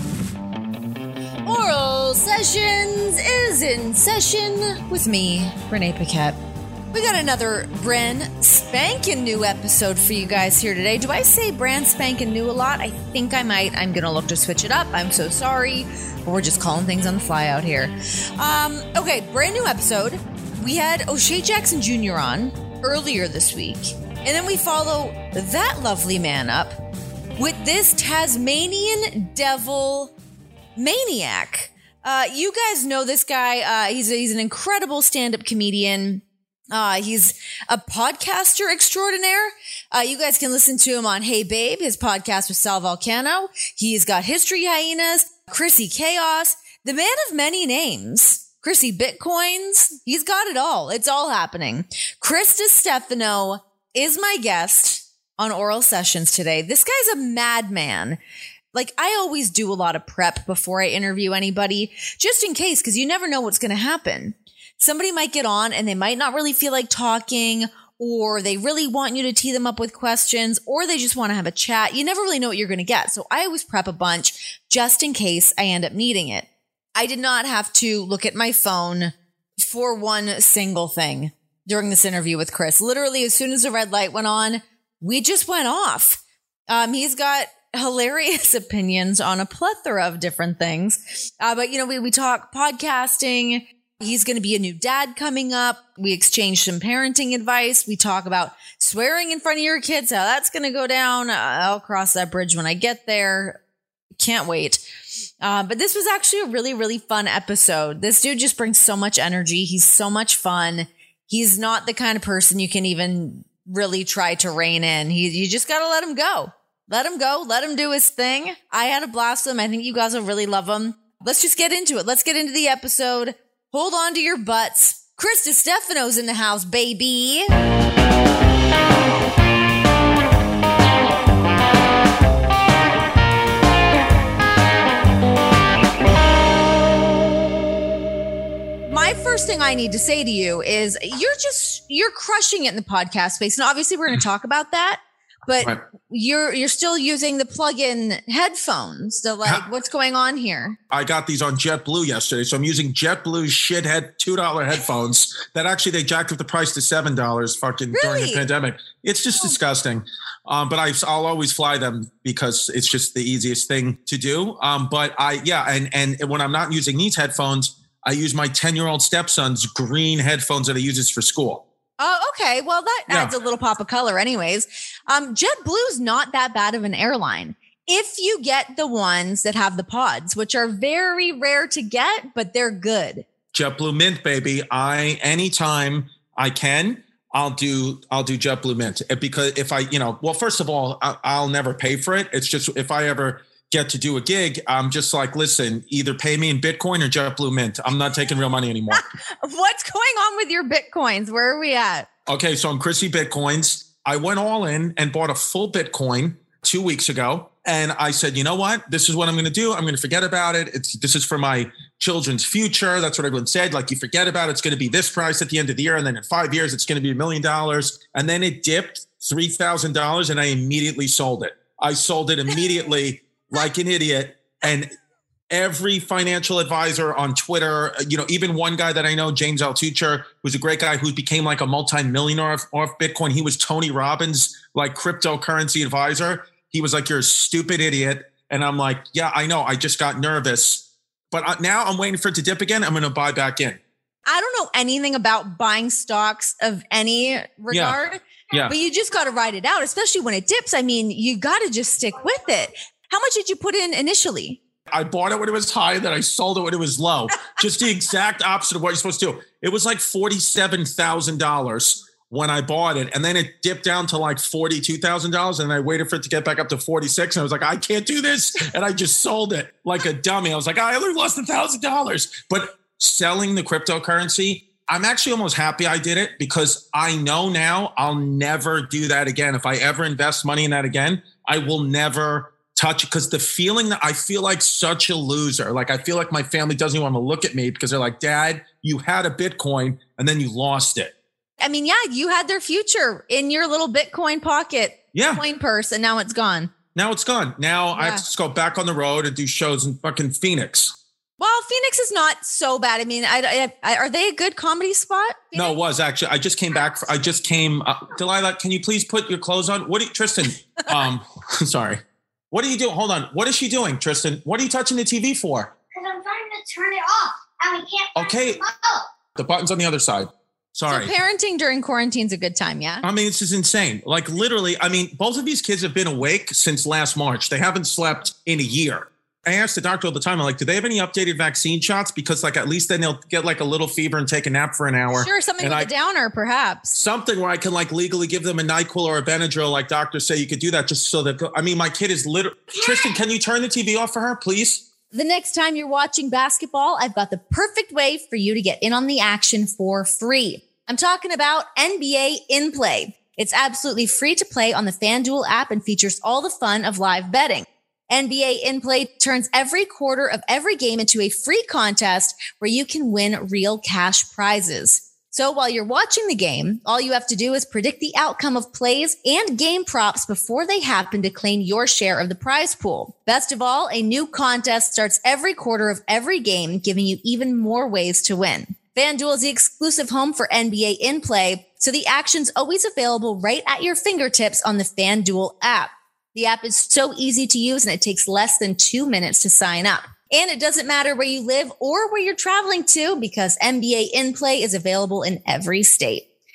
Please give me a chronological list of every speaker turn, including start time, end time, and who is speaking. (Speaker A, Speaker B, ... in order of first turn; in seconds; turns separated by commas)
Speaker A: 1.4-6.4, Speaker A: 6.9-26.8, Speaker A: 27.4-30.1, Speaker A: 30.8-58.2, Speaker A: 58.7-103.6, Speaker A: 104.2-104.8, Speaker A: 105.4-127.5, Speaker A: 138.9-150.8, Speaker B: 150.9-171.6, Speaker A: 157.9-158.4, Speaker A: 172.0-183.3, Speaker B: 173.1-173.3, Speaker B: 183.5-199.0, Speaker A: 198.9-202.1, Speaker B: 202.3-224.9, Speaker B: 225.5-243.8, Speaker A: 244.3-254.6, Speaker B: 247.7-248.0, Speaker B: 254.9-291.1, Speaker A: 291.6-296.7, Speaker B: 295.1-295.4, Speaker B: 296.9-301.0, Speaker A: 298.0-298.2, Speaker A: 301.4-305.8, Speaker B: 305.5-315.7, Speaker C: 315.9-319.1, Speaker B: 318.1-318.6, Speaker B: 319.4-321.1, Speaker A: 320.9-323.0, Speaker B: 323.0-335.9, Speaker A: 335.1-337.0, Speaker B: 336.9-344.9, Speaker A: 345.1-396.3